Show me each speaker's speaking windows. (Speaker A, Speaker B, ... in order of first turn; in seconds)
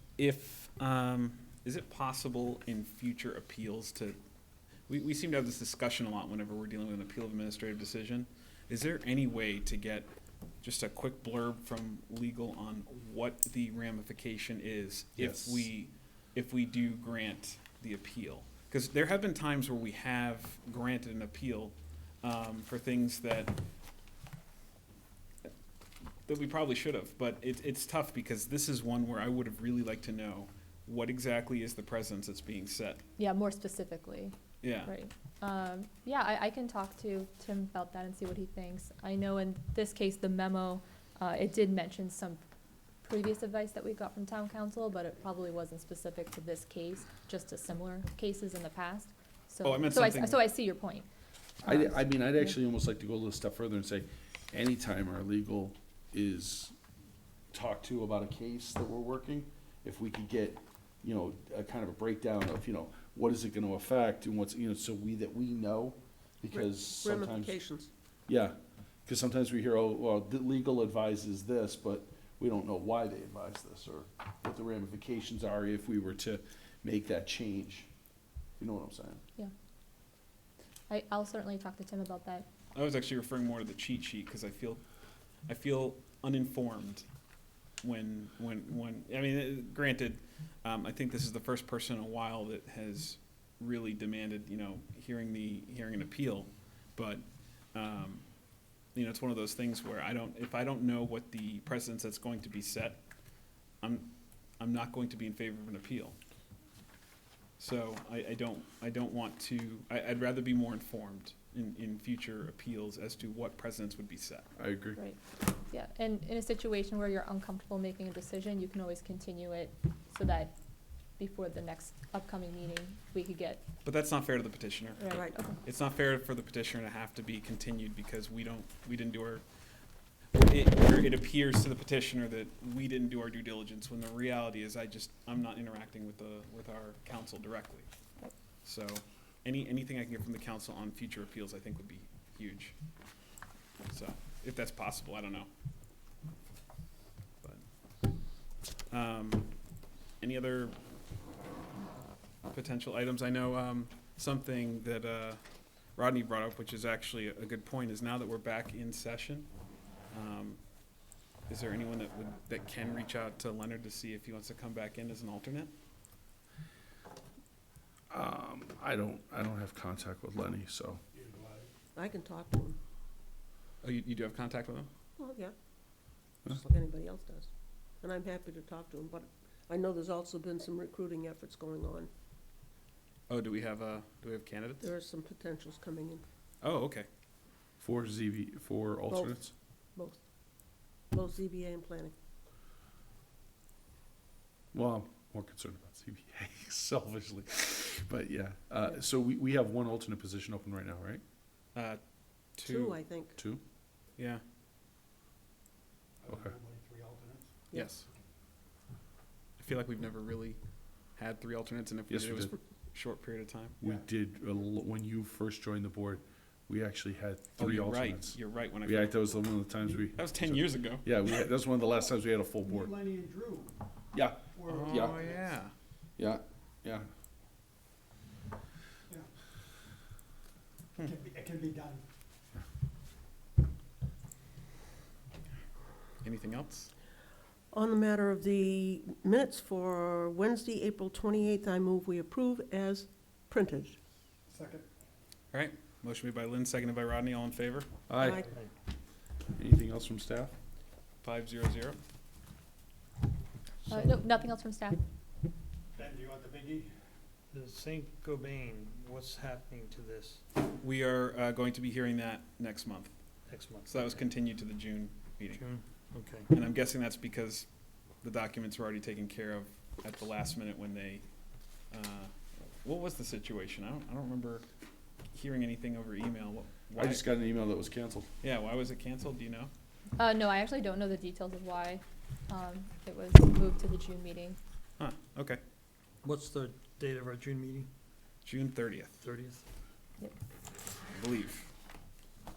Speaker A: 0.2-4.2, 4.9-10.1, 10.6-23.6, 26.3-33.0, 34.6-34.9, 49.6-50.5, 82.7-84.8, 85.5-87.0, 87.8-98.2, 98.9-103.0, 103.8-106.2, 107.6-114.5, 123.8-129.4, 130.3-137.9, 138.6-142.7, 143.9-145.5, 148.9-149.5, 150.2-150.8, 152.5-155.4, 155.9-159.5, 160.1-160.6, 161.5-165.7, 173.8-174.9, 183.3-184.9, 186.6-187.1, 201.7-203.0, 204.2-204.4, 207.7-208.1, 209.6-210.6, 211.2-213.8, 217.6-219.4, 220.2-221.1, 224.7-225.7, 236.2-236.9, 245.5-247.9, 251.2-252.0, 260.8-263.1, 263.9-265.6, 266.5-267.7, 268.2-271.2, 271.9-274.7, 275.3-277.3, 278.4-279.7, 285.0-285.6, 288.4-289.2, 291.1-291.7
Speaker B: 15.2-15.7, 51.6-56.8, 57.5-67.6, 68.3-68.5, 69.1-77.9, 78.6-79.2, 114.6-115.0, 168.1-171.0, 187.8-189.5, 194.7-201.2, 206.3-206.5, 212.1-212.5, 213.8-223.0, 224.1-225.3, 226.2-227.1, 248.1-248.5, 249.6-250.5, 276.9-278.3
Speaker C: 33.2-42.4, 43.0-51.1, 80.9-82.5, 115.7-120.5, 121.2-123.6, 125.0-125.5, 253.9-255.0, 280.2-284.6
Speaker D: 66.5-67.9, 171.9-172.8, 175.2-175.5, 176.4-177.5, 178.0-182.1, 184.8-186.2, 189.1-189.4, 189.9-190.2, 191.1-192.1, 202.7-203.4, 237.7-244.0, 248.2-248.5
Speaker E: 171.2-171.6, 206.2-207.3, 222.8-223.7, 224.6-225.3, 231.0-232.0, 244.5-244.8, 256.0-256.9
Speaker F: 257.5-260.4, 263.5-264.3, 265.5-266.5, 286.2-287.9, 289.2-289.6